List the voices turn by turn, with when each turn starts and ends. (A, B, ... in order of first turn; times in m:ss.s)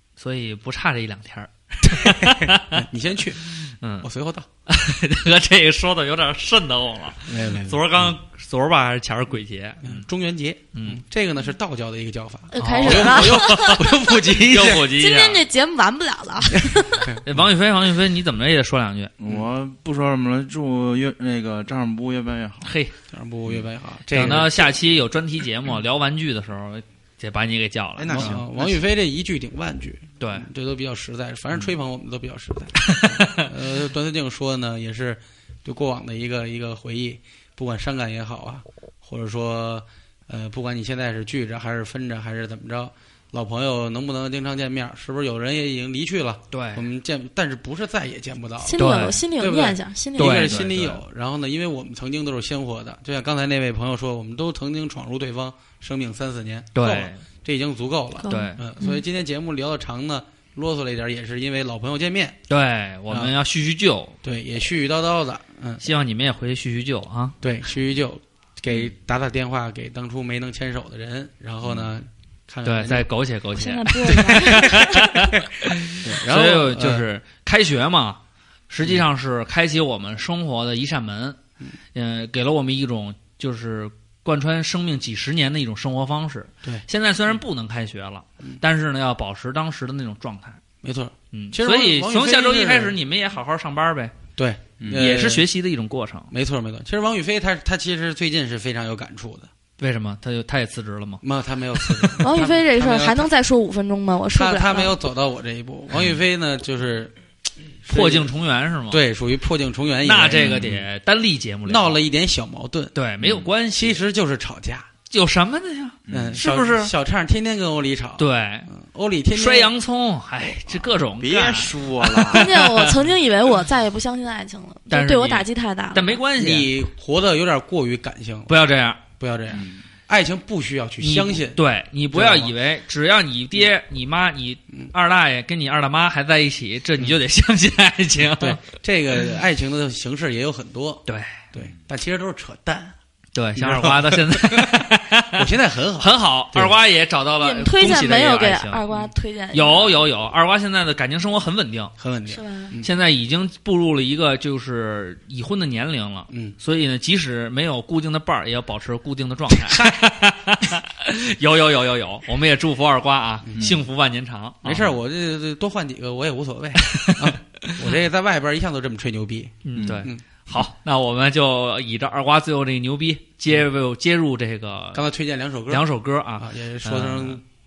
0:00.2-0:02.8 A
0:01.8-0:03.4 B
0:03.6-0:04.1 A
0:04.0-0:04.5 B
0:04.7-0:10.0 A
0:07.3-0:08.1 B
0:09.8-0:14.9 B
0:10.7-0:11.0 A
0:12.5-0:14.0 C
0:12.6-0:13.8 A
0:14.4-0:15.4 A
0:14.8-0:17.1 C
0:17.2-0:19.1 A
0:19.2-0:22.7 D
0:22.6-0:22.9 A
0:23.1-0:24.6 B
0:24.1-0:28.4 A
0:28.0-0:28.8 D
0:28.1-1:02.4 B
0:30.2-0:30.5 A
0:32.9-0:33.4 A
0:46.5-0:46.8 A
0:48.6-0:50.6 C
0:48.8-0:49.2 A
0:50.2-0:51.0 A
0:56.7-0:57.2 A
0:58.2-0:59.0 C
0:58.3-0:58.6 A
1:02.5-1:04.2 A
1:03.1-1:03.3 B
1:04.2-1:05.8 B
1:05.8-1:07.4 A
1:07.4-1:13.1 B
1:12.6-1:21.4 A
1:13.5-1:15.1 C
1:14.0-1:15.4 B
1:16.0-1:17.0 B
1:21.9-1:30.6 A
1:30.8-1:33.0 B
1:31.3-1:34.1 A
1:34.4-1:35.5 B
1:34.9-1:36.3 A
1:36.3-1:39.5 B
1:39.8-1:41.2 A
1:41.2-1:43.3 B
1:41.8-1:42.2 A
1:42.2-1:44.9 C
1:44.3-1:47.1 B
1:47.8-1:48.3 B
1:47.9-1:49.0 A
1:48.9-1:50.8 B
1:50.0-1:52.0 A
1:50.4-1:50.8 D
1:51.6-1:52.9 B
1:52.9-1:54.0 A
1:53.7-1:54.9 B
1:55.1-1:56.9 A
1:56.1-1:56.4 D
1:56.1-1:59.7 B
1:58.2-1:58.7 A
1:59.3-2:02.9 A
2:01.1-2:02.5 D
2:02.3-2:06.2 C
2:04.9-2:06.7 A
2:06.4-2:08.5 B
2:08.5-2:09.0 A
2:09.2-2:12.5 B
2:09.5-2:09.8 D
2:11.0-2:18.6 A
2:18.4-2:22.9 B
2:21.1-2:21.4 A
2:23.3-2:25.4 A
2:23.6-2:26.8 B
2:26.0-2:28.8 A
2:27.4-2:30.0 C
2:29.5-2:31.9 A
2:32.0-2:32.9 B
2:32.3-2:32.8 C
2:32.8-2:44.9 A
2:36.3-2:36.6 B
2:39.5-2:40.0 B
2:43.4-2:43.8 B
2:44.6-2:50.2 B
2:46.9-2:47.9 A
2:49.6-2:55.0 A
2:49.7-2:50.1 D
2:54.9-2:55.8 B
2:55.7-2:57.4 A
2:56.4-2:57.4 B